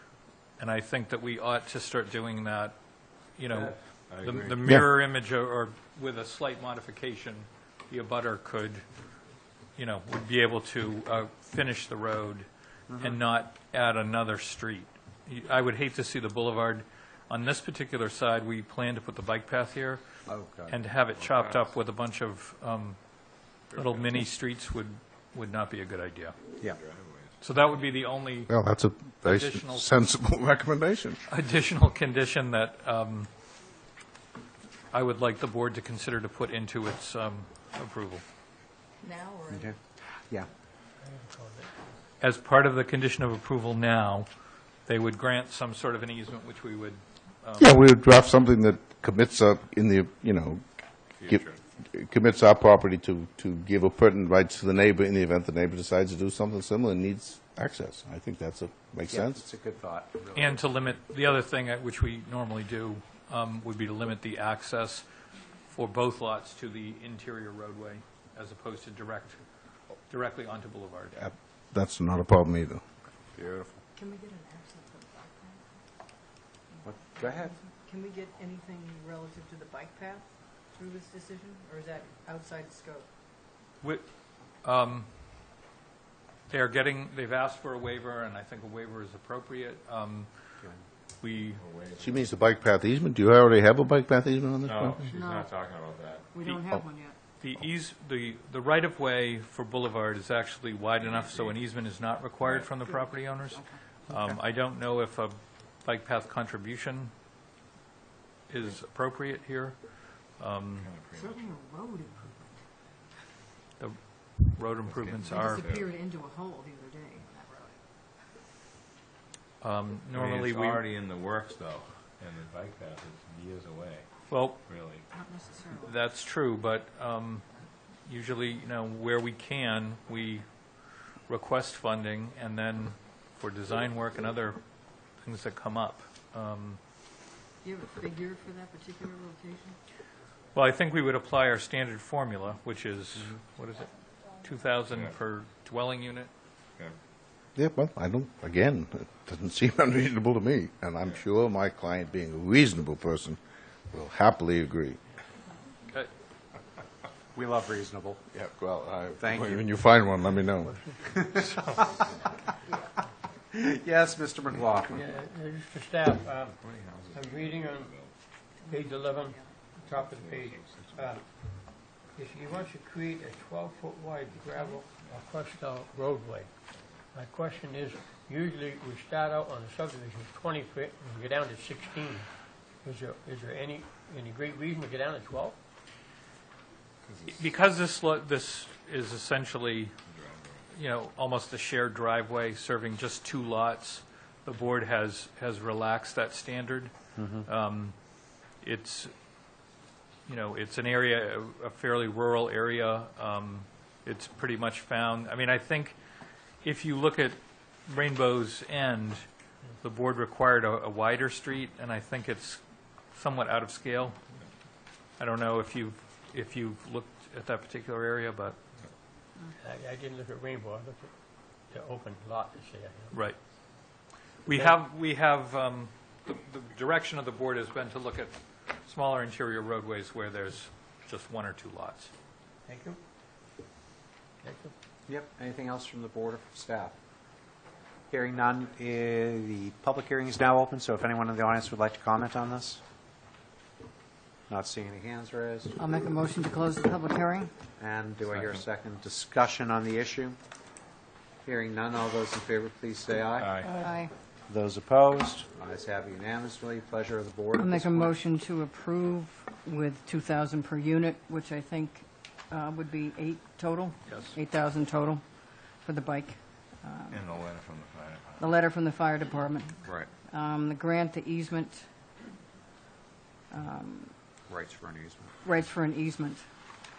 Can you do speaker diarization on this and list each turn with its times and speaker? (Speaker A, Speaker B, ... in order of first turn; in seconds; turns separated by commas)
Speaker A: 0.6-8.8, Speaker B: 4.1-4.5, Speaker A: 9.7-12.5, Speaker C: 12.9-13.2, Speaker A: 13.0-20.0, Speaker C: 20.3-20.8, Speaker A: 20.6-26.4, Speaker B: 21.1-21.7, Speaker B: 23.7-24.2, Speaker B: 26.6-27.7, Speaker A: 27.4-28.6, Speaker D: 28.5-31.2, Speaker A: 29.2-29.9, Speaker A: 31.3-33.3, Speaker A: 34.9-38.2, Speaker E: 39.0-39.7, Speaker C: 39.5-40.5, Speaker F: 41.0-41.7, Speaker A: 42.2-44.3, Speaker A: 44.8-47.7, Speaker D: 47.6-50.6, Speaker B: 51.2-51.6, Speaker D: 51.3-59.4, Speaker C: 59.1-60.9, Speaker A: 60.3-65.0, Speaker A: 65.7-69.4, Speaker A: 70.1-71.3, Speaker D: 71.2-72.8, Speaker E: 74.0-75.8, Speaker E: 76.7-83.1, Speaker C: 76.8-77.6, Speaker A: 83.8-85.1, Speaker A: 86.5-90.3, Speaker A: 91.2-91.6, Speaker B: 91.5-92.4, Speaker D: 92.0-95.1, Speaker B: 94.6-96.5, Speaker E: 95.1-95.5, Speaker E: 96.3-97.2, Speaker A: 97.4-107.1, Speaker B: 101.0-101.6, Speaker B: 102.4-102.8, Speaker E: 103.0-103.8, Speaker A: 108.5-110.9, Speaker B: 110.8-111.5, Speaker E: 111.2-112.6, Speaker A: 113.8-115.7, Speaker B: 114.8-116.0, Speaker E: 115.3-117.8, Speaker A: 119.6-120.8, Speaker B: 120.1-124.1, Speaker A: 124.3-124.6, Speaker B: 124.6-125.0, Speaker E: 125.1-125.9, Speaker A: 125.8-127.4, Speaker A: 128.1-130.4, Speaker A: 131.3-136.8, Speaker E: 137.6-139.8, Speaker A: 140.5-146.3, Speaker B: 144.9-145.2, Speaker D: 147.5-155.0, Speaker C: 157.3-158.2, Speaker D: 158.3-160.8, Speaker C: 159.2-159.7, Speaker F: 160.6-161.9, Speaker C: 161.0-162.3, Speaker C: 163.5-165.0, Speaker F: 164.9-166.6, Speaker B: 166.6-168.1, Speaker F: 167.1-167.9, Speaker E: 168.6-169.5, Speaker F: 168.7-176.5, Speaker B: 169.7-171.2, Speaker F: 177.1-185.6, Speaker B: 187.0-187.4, Speaker A: 187.3-189.9, Speaker B: 190.1-190.7, Speaker A: 190.7-196.9, Speaker C: 197.2-197.4, Speaker A: 197.4-198.0, Speaker A: 198.5-199.1, Speaker A: 200.3-206.0, Speaker A: 206.6-209.2, Speaker A: 209.8-214.2, Speaker A: 215.2-218.6, Speaker F: 219.6-223.1, Speaker A: 223.1-232.1, Speaker F: 224.5-224.8, Speaker F: 232.7-233.0, Speaker F: 234.4-234.7, Speaker C: 235.1-236.9, Speaker C: 238.1-242.8, Speaker C: 244.5-245.8, Speaker G: 245.8-247.5, Speaker C: 247.8-250.4, Speaker B: 248.2-248.7, Speaker C: 251.4-253.6, Speaker B: 253.3-253.8, Speaker G: 253.6-254.1, Speaker C: 254.5-258.2, Speaker G: 257.5-267.2, Speaker A: 264.1-264.3, Speaker B: 267.1-268.6, Speaker G: 268.4-271.9, Speaker C: 269.8-270.1, Speaker G: 273.5-274.1, Speaker C: 274.5-275.3, Speaker G: 275.4-276.4